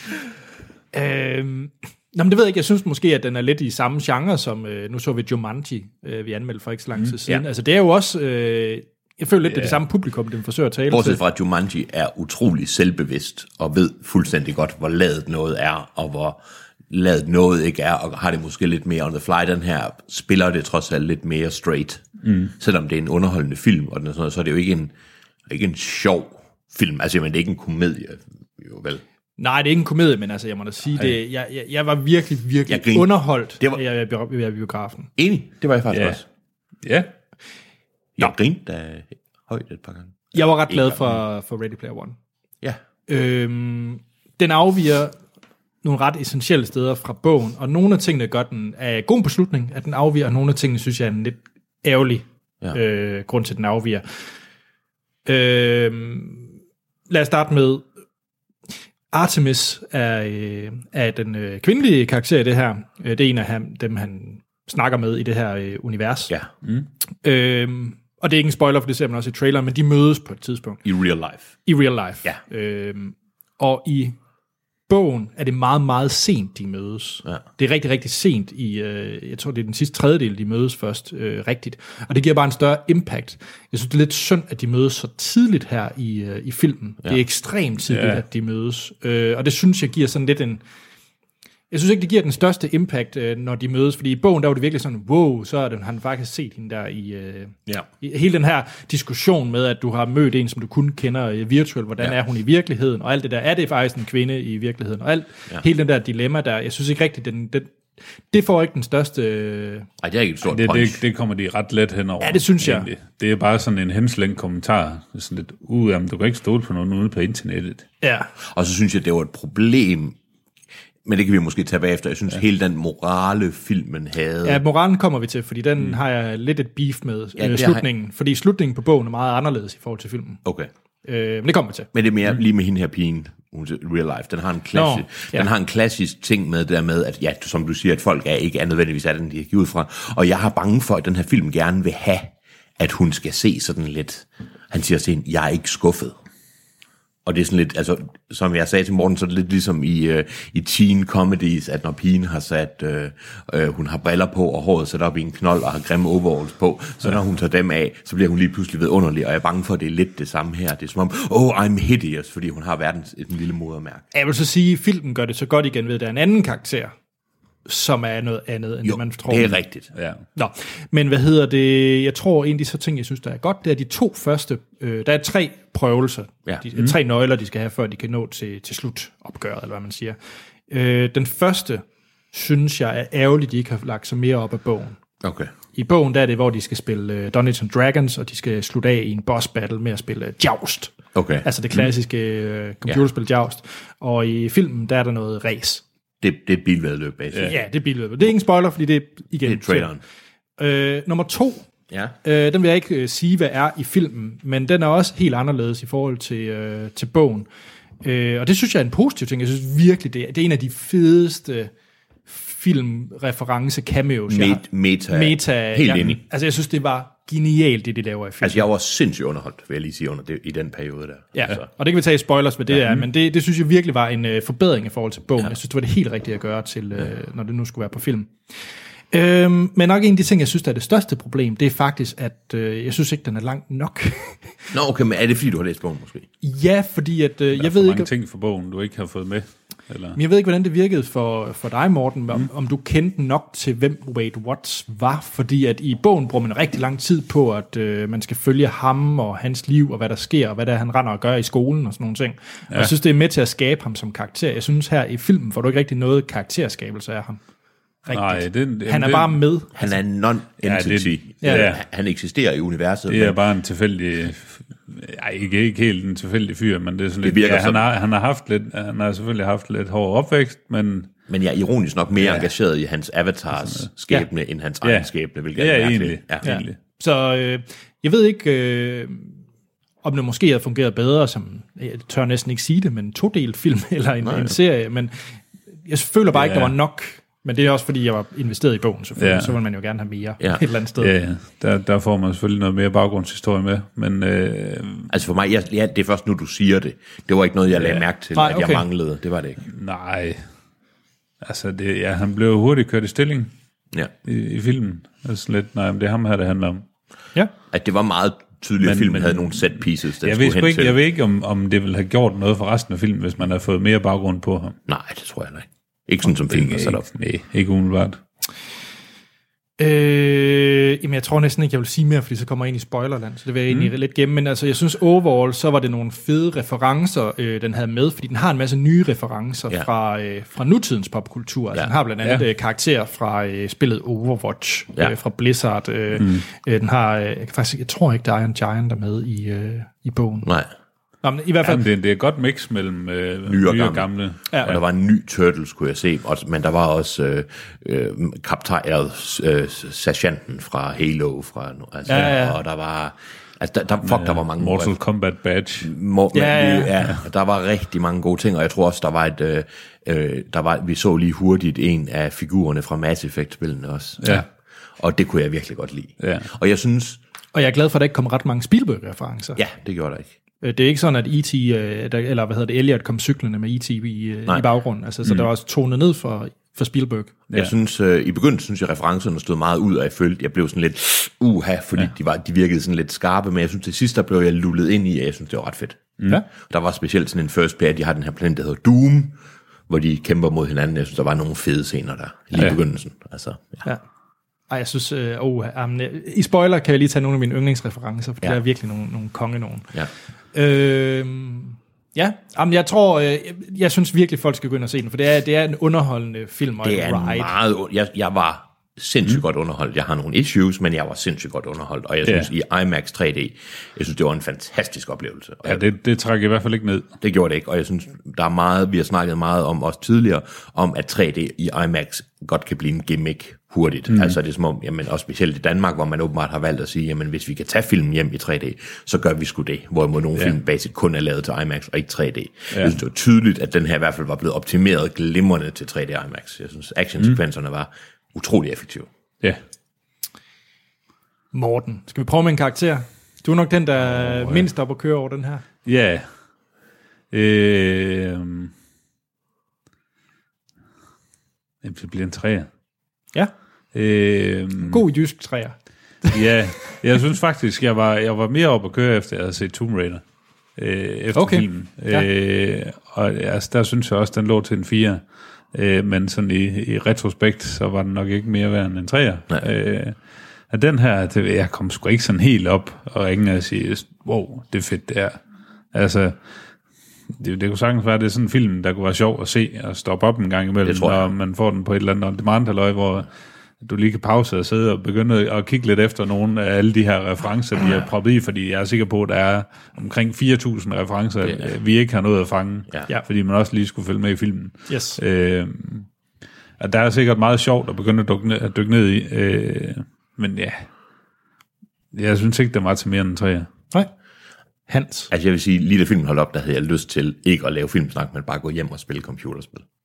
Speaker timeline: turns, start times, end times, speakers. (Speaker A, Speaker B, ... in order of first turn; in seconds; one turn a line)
Speaker A: 0.9-11.2
Speaker B: 10.9-22.0
Speaker C: 22.2-22.5
Speaker B: 22.6-24.9
Speaker B: 25.5-29.0
Speaker A: 29.4-35.1
Speaker B: 32.7-33.8
Speaker B: 35.2-36.2
Speaker C: 35.9-36.2
Speaker C: 36.8-37.1
Speaker B: 38.2-41.1
Speaker A: 40.3-42.1
Speaker A: 43.1-45.1
Speaker A: 45.8-54.0
Speaker A: 55.2-56.5
Speaker A: 57.1-57.8
Speaker A: 59.1-66.3
Speaker A: 67.2-70.8
Speaker B: 70.8-71.5
Speaker A: 71.6-74.2
Speaker A: 74.9-90.6
Speaker C: 87.9-88.2
Speaker A: 91.7-107.7
Speaker A: 108.3-109.9
Speaker B: 110.0-111.0
Speaker C: 110.4-117.8
Speaker A: 112.2-112.9
Speaker A: 118.0-118.3
Speaker B: 118.4-120.2
Speaker B: 121.0-124.6
Speaker A: 124.4-130.4
Speaker B: 127.4-127.8
Speaker B: 130.4-130.7
Speaker A: 131.0-131.9
Speaker B: 131.9-146.2
Speaker A: 134.7-135.5
Speaker B: 147.2-164.1
Speaker A: 164.1-166.9
Speaker A: 167.7-169.6
Speaker B: 168.8-169.9
Speaker C: 169.9-170.2
Speaker A: 170.3-180.2
Speaker A: 180.7-185.0
Speaker B: 185.2-185.5
Speaker A: 185.7-190.9
Speaker B: 191.1-191.5
Speaker A: 191.4-195.8
Speaker B: 196.2-197.5
Speaker A: 197.4-199.9
Speaker B: 199.4-200.0
Speaker A: 200.6-201.7
Speaker B: 201.9-202.2
Speaker A: 202.2-207.5
Speaker A: 208.0-211.7
Speaker A: 212.3-218.6
Speaker B: 214.3-216.2
Speaker B: 218.4-221.7
Speaker A: 221.3-228.3
Speaker A: 229.1-234.5
Speaker B: 234.7-236.3
Speaker A: 236.4-238.1
Speaker C: 237.6-240.2
Speaker A: 240.1-257.4
Speaker A: 258.1-259.9
Speaker C: 258.1-259.4
Speaker B: 259.7-263.4
Speaker C: 260.6-261.8
Speaker A: 261.4-261.7
Speaker C: 263.1-271.1
Speaker B: 267.2-267.9
Speaker B: 271.3-276.4
Speaker C: 274.8-276.8
Speaker A: 276.4-279.4
Speaker A: 280.0-285.1
Speaker B: 284.2-284.6
Speaker A: 285.9-291.1
Speaker C: 286.3-286.7
Speaker C: 289.2-289.5
Speaker C: 291.0-295.1
Speaker B: 295.1-299.6
Speaker A: 298.3-298.9
Speaker C: 299.7-300.4
Speaker C: 301.4-303.5
Speaker C: 304.2-306.8
Speaker B: 307.7-310.9
Speaker C: 308.8-314.8
Speaker B: 314.9-317.1
Speaker C: 316.4-318.2
Speaker A: 319.8-340.5
Speaker B: 340.4-340.7
Speaker A: 341.2-341.8
Speaker C: 341.6-344.4
Speaker B: 343.4-344.1
Speaker A: 344.5-344.8
Speaker B: 344.6-354.9
Speaker A: 352.1-352.6
Speaker C: 354.0-355.9
Speaker B: 355.8-364.4
Speaker A: 356.3-356.9
Speaker C: 364.2-364.4
Speaker B: 365.0-367.2
Speaker C: 366.2-366.5
Speaker A: 367.5-369.6
Speaker B: 369.6-370.3
Speaker A: 370.6-377.3
Speaker B: 377.5-389.4
Speaker B: 389.9-393.8
Speaker A: 394.7-399.9
Speaker A: 400.5-407.5
Speaker B: 406.8-415.8
Speaker C: 412.2-412.5
Speaker C: 415.6-417.1
Speaker B: 417.2-439.1
Speaker C: 424.1-424.4
Speaker A: 441.5-445.6
Speaker B: 444.1-444.6
Speaker C: 445.9-446.3
Speaker C: 447.3-448.7
Speaker C: 451.8-452.7
Speaker C: 453.9-455.0
Speaker A: 454.8-455.8
Speaker C: 456.3-460.2
Speaker C: 460.8-465.2
Speaker A: 461.3-462.3
Speaker C: 465.7-470.1
Speaker C: 470.7-475.4
Speaker C: 475.9-476.4
Speaker C: 477.4-483.3
Speaker B: 480.8-481.3
Speaker C: 483.8-496.1
Speaker B: 491.4-491.7
Speaker A: 494.9-495.2
Speaker C: 496.8-500.9
Speaker C: 502.1-503.7
Speaker A: 504.9-505.3
Speaker B: 505.3-509.9